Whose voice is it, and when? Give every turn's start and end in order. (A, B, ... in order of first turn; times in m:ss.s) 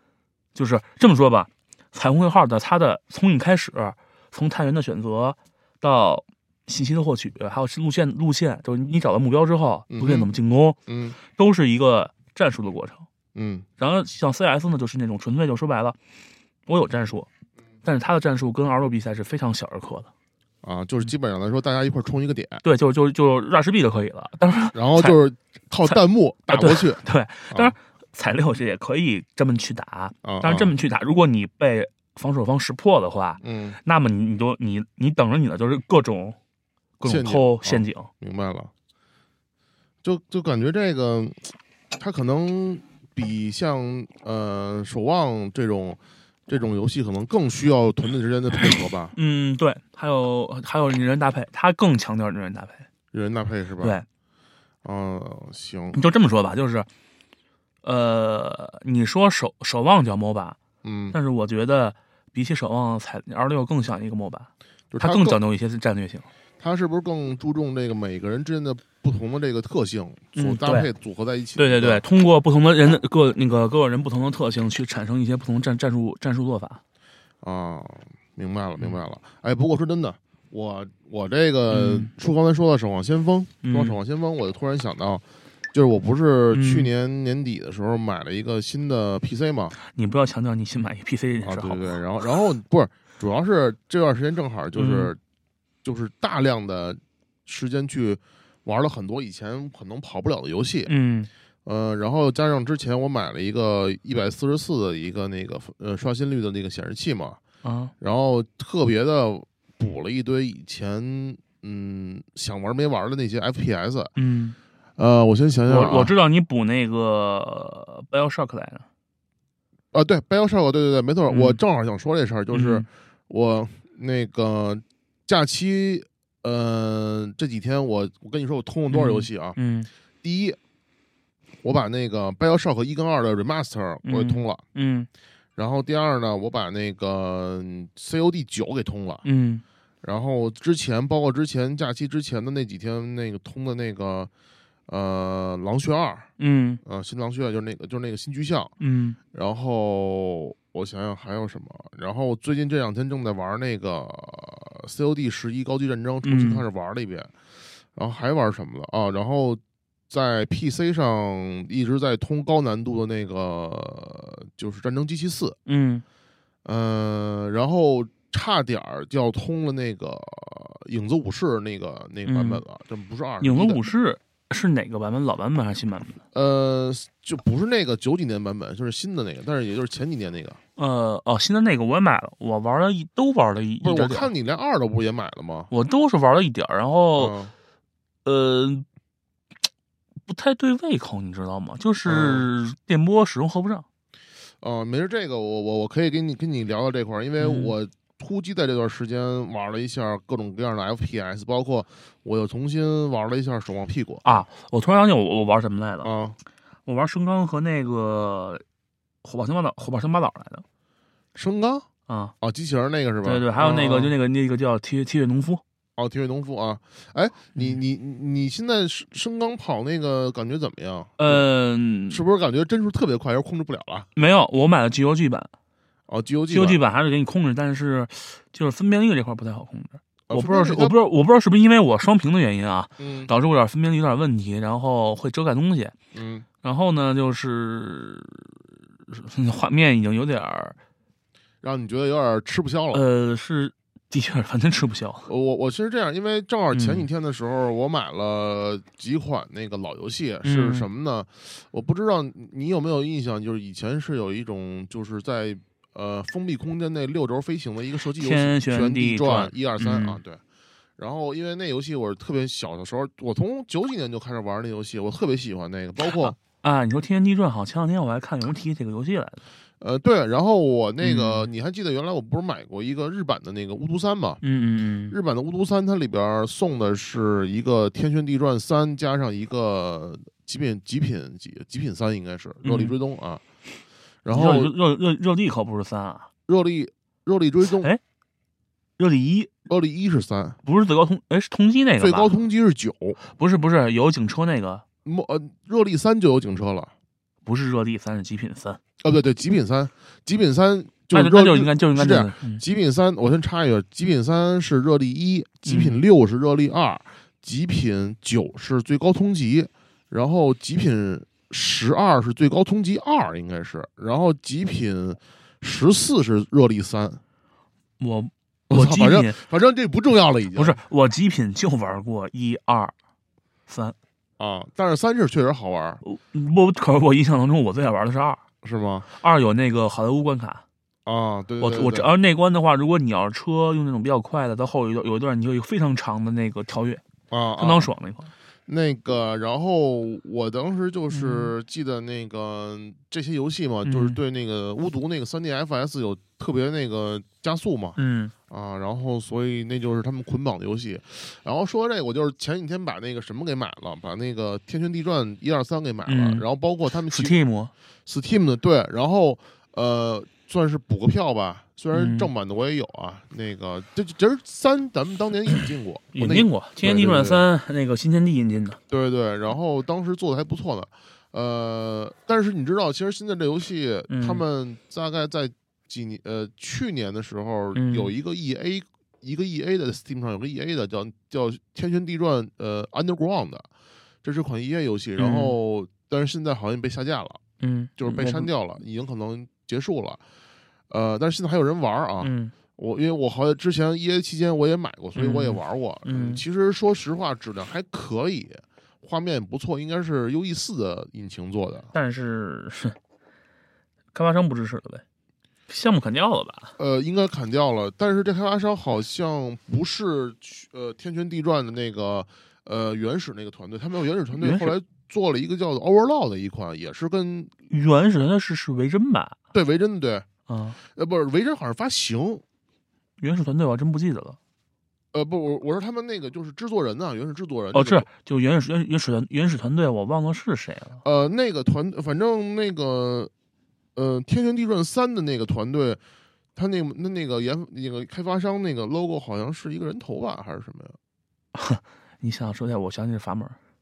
0:00.5-0:13.0 A
0:09.9-0:10.3 B
0:10.9-0:11.2 B
0:13.3-0:13.6 B
0:13.8-0:16.0 A
0:16.7-0:17.3 A
0:17.8-0:20.1 A
0:20.6-0:22.6 B
0:22.6-0:25.2 A
0:24.8-0:27.7 B
0:25.8-0:36.4 A
0:30.2-0:30.7 B
0:33.4-0:33.8 B
0:37.0-0:38.1 A
0:37.0-0:38.7 B
0:40.0-0:49.1 B
0:49.1-0:52.9 A
0:53.1-0:54.0 B
0:53.8-0:54.0 A
0:54.8-0:56.0 B
0:55.9-0:56.9 A
0:57.8-1:00.6 A
1:00.8-1:01.2 B
1:01.1-1:04.5 A
1:04.9-1:05.4 B
1:05.0-1:06.3 A
1:06.6-1:12.0 B
1:10.3-1:10.9 A
1:11.6-1:16.8 A
1:17.4-1:29.8 B
1:21.7-1:22.1 A
1:23.6-1:24.0 A
1:26.5-1:26.9 A
1:29.8-1:32.0 A
1:31.4-1:35.2 B
1:34.8-1:35.1 A
1:35.8-1:40.9 B
1:40.9-1:41.3 A
1:41.6-1:47.4 B
1:47.6-1:47.9 A
1:48.0-1:54.1 B
1:54.2-1:54.6 A
1:55.0-1:56.1 B
1:55.7-1:58.8 A
1:59.9-2:09.6 B
2:01.3-2:01.6 A
2:02.5-2:02.8 A
2:08.9-2:09.9 A
2:10.2-2:10.6 B
2:11.6-2:14.6 B
2:14.0-2:15.1 A
2:15.6-2:19.2 B
2:19.2-2:19.6 A
2:20.0-2:24.3 B
2:24.9-2:26.3 B
2:26.4-2:26.8 A
2:26.8-2:28.7 B
2:28.8-2:29.2 A
2:29.3-2:37.3 B
2:36.2-2:36.6 A
2:37.9-2:45.6 B
2:45.6-2:46.0 A
2:46.6-2:53.8 B
2:52.2-2:52.6 A
2:53.4-2:56.2 A
2:56.3-3:00.6 B
3:00.8-3:04.3 A
3:03.8-3:05.7 B
3:05.7-3:07.3 A
3:07.2-3:07.5 B
3:08.2-3:08.8 A
3:10.3-3:13.8 A
3:12.0-3:12.5 B
3:14.6-3:24.4 B
3:17.4-3:17.8 A
3:24.2-3:26.1 A
3:26.0-3:26.4 B
3:26.8-3:28.6 A
3:29.2-3:30.6 A
3:31.3-3:31.9 B
3:32.1-3:32.3 A
3:32.4-3:34.1 B
3:33.2-3:35.6 A
3:36.0-3:41.4 B
3:41.2-3:42.2 A
3:42.1-3:44.1 B
3:44.2-3:45.5 A
3:46.1-3:46.8 B
3:46.5-3:55.9 A
3:50.3-3:50.9 B
3:53.0-3:53.3 B
3:56.1-3:56.4 B
3:56.6-4:00.8 A
4:01.6-4:03.0 B
4:02.9-4:05.3 A
4:05.3-4:20.4 B
4:06.7-4:07.1 A
4:10.4-4:10.9 A
4:18.2-4:20.2 A
4:21.0-4:26.4 B
4:26.0-4:29.4 A
4:29.8-4:34.4 B
4:31.0-4:31.5 A
4:34.4-4:35.2 A
4:35.1-4:43.4 B
4:42.6-4:43.0 A
4:44.2-4:44.7 B
4:44.3-4:46.3 A
4:46.5-4:47.9 B
4:47.7-4:48.0 A
4:49.0-4:49.5 A
4:49.7-4:50.6 B
4:50.6-4:52.4 A
4:52.0-4:53.2 B
4:53.3-4:54.8 A
4:55.0-4:56.9 B
4:57.4-4:58.8 A
4:59.0-5:17.2 B
5:01.1-5:02.6 A
5:05.6-5:06.0 A
5:18.0-5:19.4 A
5:18.7-5:20.8 B
5:20.5-5:22.9 A
5:23.7-5:24.0 A
5:24.4-5:26.0 B
5:26.0-5:28.4 A
5:28.6-5:29.1 B
5:29.2-5:30.6 A
5:31.0-5:32.1 B
5:31.6-5:37.0 A
5:37.3-5:37.9 B
5:37.6-5:38.3 A
5:38.7-5:48.0 B
5:41.1-5:41.5 A
5:43.8-5:44.2 A
5:48.0-5:48.3 A
5:48.5-5:57.3 B
5:56.1-5:56.4 A
5:57.1-5:57.7 A
5:58.0-6:07.4 B
6:01.9-6:02.3 A
6:06.1-6:08.8 A
6:08.9-6:23.7 B
6:14.1-6:14.4 A
6:17.7-6:18.1 A
6:24.2-6:27.4 B
6:25.2-6:25.6 A
6:27.6-6:28.5 A
6:28.0-6:30.2 B
6:30.9-6:41.9 B
6:32.2-6:32.5 A
6:35.2-6:36.4 A
6:41.9-6:43.0 A
6:44.1-6:45.0 A
6:45.7-6:46.8 A
6:46.8-6:57.5 B
6:54.3-6:54.7 A
6:57.7-6:59.4 A
6:59.5-7:00.3 B
7:00.5-7:00.8 A
7:00.8-7:02.4 B
7:03.2-7:04.4 A
7:05.1-7:08.1 B
7:07.7-7:11.0 A
7:11.0-7:13.3 B
7:13.9-7:16.0 B
7:16.6-7:21.0 B
7:21.5-7:23.6 A